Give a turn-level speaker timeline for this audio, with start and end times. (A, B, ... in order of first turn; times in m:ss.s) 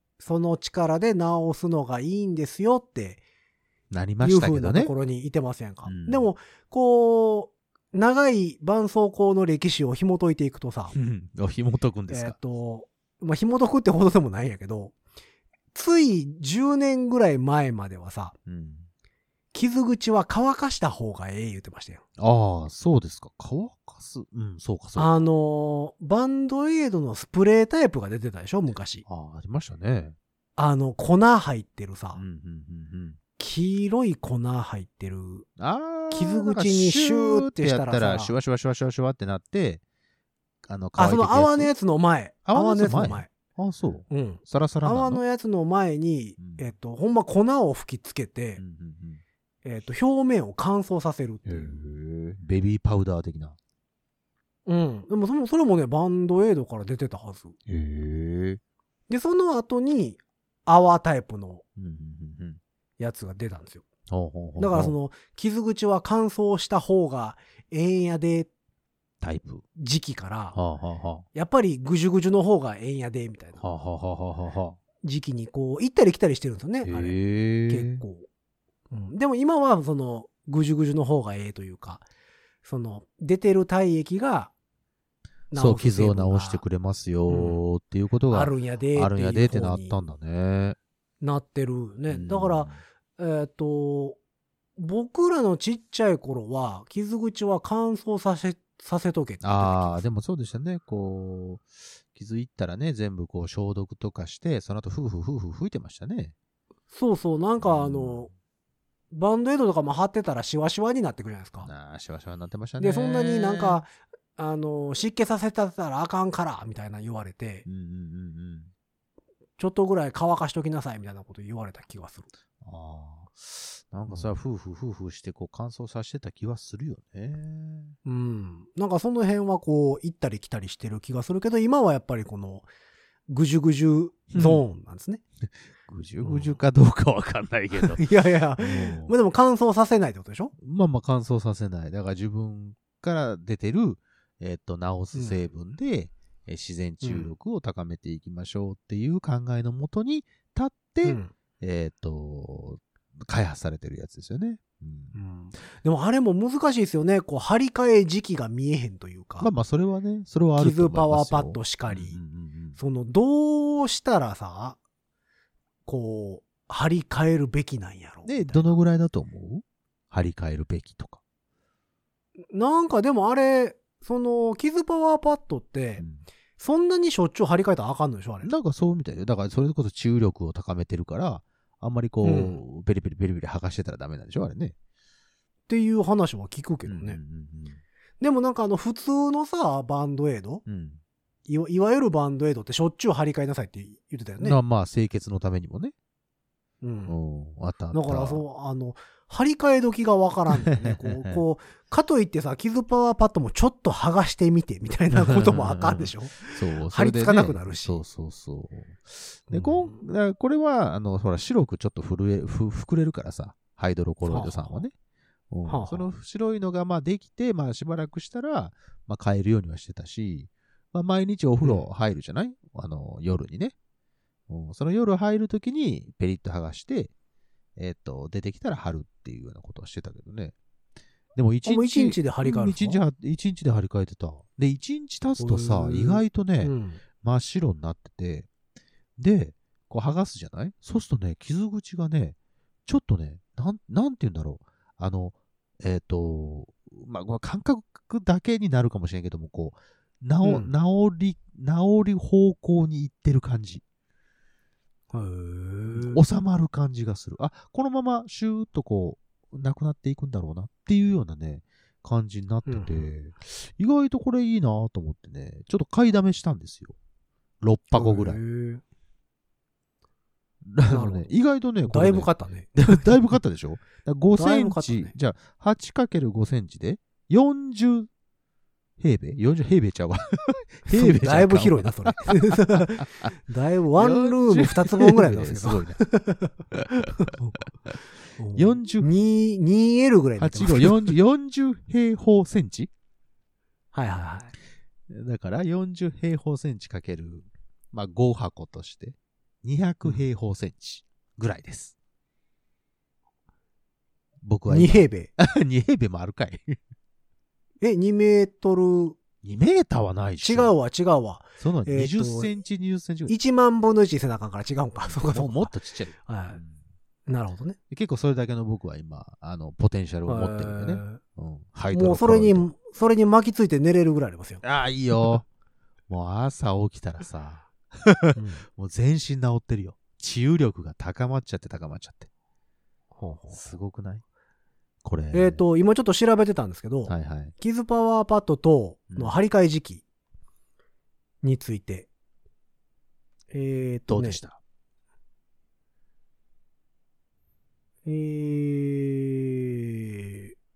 0:00.2-0:03.2 A
0:03.9-0:04.9 B
0:04.2-0:11.0 A
0:05.8-0:06.3 B
0:10.9-0:12.4 B
0:12.1-0:15.0 A
0:15.7-0:18.4 A
0:18.5-0:18.9 B
0:19.5-0:22.0 A
0:22.2-0:25.3 B
0:25.0-0:29.0 A
0:29.1-0:30.2 B
0:30.6-0:32.2 A
0:32.2-0:33.2 B
0:33.4-0:35.5 A
0:35.6-0:39.8 B
0:36.1-0:38.3 A
0:40.6-0:41.7 B
0:41.0-0:43.3 A
0:42.5-0:45.2 B
0:44.1-0:48.6 A
0:46.4-0:46.7 B
0:48.6-0:49.2 B
0:49.6-0:51.8 A
0:51.5-0:53.6 B
0:54.7-0:57.6 A
0:57.7-0:58.6 B
0:59.1-1:01.6 A
1:01.8-1:02.6 B
1:03.0-1:03.8 A
1:04.1-1:05.0 B
1:04.6-1:08.5 A
1:09.2-1:09.6 B
1:09.8-1:10.6 A
1:10.5-1:11.3 B
1:11.3-1:13.6 A
1:13.6-1:14.8 B
1:15.0-1:18.3 A
1:16.8-1:18.0 B
1:18.9-1:22.0 A
1:22.6-1:24.5 A
1:25.5-1:26.6 A
1:25.5-1:30.8 B
1:27.3-1:27.6 A
1:28.3-1:30.0 A
1:31.2-1:34.2 A
1:32.1-1:32.8 B
1:34.8-1:40.0 A
1:39.4-1:46.4 B
1:46.9-1:48.3 A
1:47.6-1:48.3 B
1:49.1-1:51.7 A
1:51.6-1:53.8 B
1:52.8-1:57.7 A
1:57.7-1:58.7 B
1:59.6-2:02.3 A
2:02.6-2:08.0 B
2:08.0-2:12.7 A
2:13.3-2:15.2 A
2:14.3-2:14.6 B
2:15.8-2:18.1 B
2:16.2-2:16.6 A
2:17.9-2:20.5 A
2:18.6-2:19.1 B
2:20.6-2:35.2 B
2:25.1-2:25.4 A
2:27.0-2:27.3 A
2:31.0-2:31.3 A
2:35.1-2:39.5 A
2:39.4-2:42.8 B
2:40.6-2:42.2 A
2:42.8-2:44.8 A
2:45.9-2:48.8 A
2:48.2-2:51.2 B
2:52.5-2:56.0 A
2:56.0-2:56.2 B
2:56.6-2:58.5 A
2:58.4-3:04.8 B
3:02.2-3:02.6 A
3:05.7-3:07.2 A
3:06.9-3:07.8 B
3:08.2-3:10.6 A
3:10.7-3:11.0 B
3:11.5-3:14.6 A
3:14.4-3:15.9 B
3:16.8-3:17.2 A
3:17.1-3:18.4 B
3:17.9-3:28.0 A
3:20.7-3:21.4 B
3:25.1-3:34.9 B
3:29.5-3:30.0 A
3:34.2-3:34.8 A
3:35.5-3:43.8 B
3:35.7-3:36.1 A
3:44.5-3:47.1 B
3:47.8-3:50.6 B
3:51.4-3:58.5 B
3:51.6-3:53.0 A
3:55.4-3:57.0 A
3:59.2-4:13.8 B
4:10.4-4:10.7 A
4:15.1-4:16.2 A
4:15.9-4:27.0 B
4:22.7-4:23.1 A
4:27.6-4:28.4 B
4:27.9-4:28.8 A
4:30.6-4:38.1 B
4:30.9-4:31.3 A
4:31.8-4:33.1 A
4:34.4-4:35.1 A
4:39.0-4:43.3 B
4:40.9-4:47.7 A
4:44.0-4:46.0 B
4:46.7-4:47.3 B
4:48.4-4:51.2 A
4:48.5-4:49.1 B
4:50.4-4:52.9 B
4:53.9-4:54.5 A
4:55.1-5:01.9 B
5:04.4-5:06.8 B
5:04.7-5:05.3 A
5:07.8-5:09.2 A
5:09.4-5:10.7 B
5:10.4-5:12.5 A
5:11.6-5:13.4 B
5:13.3-5:15.7 A
5:15.1-5:16.8 B
5:16.2-5:16.6 A
5:17.3-5:17.8 A
5:17.9-5:22.7 B
5:20.3-5:21.2 A
5:21.9-5:24.6 A
5:24.6-5:25.5 B
5:26.1-5:32.3 B
5:28.4-5:28.6 A
5:33.2-5:33.7 A
5:33.5-5:34.2 B
5:35.0-5:35.6 B
5:35.3-5:40.0 A
5:37.1-5:37.5 B
5:39.1-5:39.4 B
5:41.4-5:42.1 A
5:43.5-5:44.4 A
5:44.1-5:44.6 B
5:48.1-5:50.5 A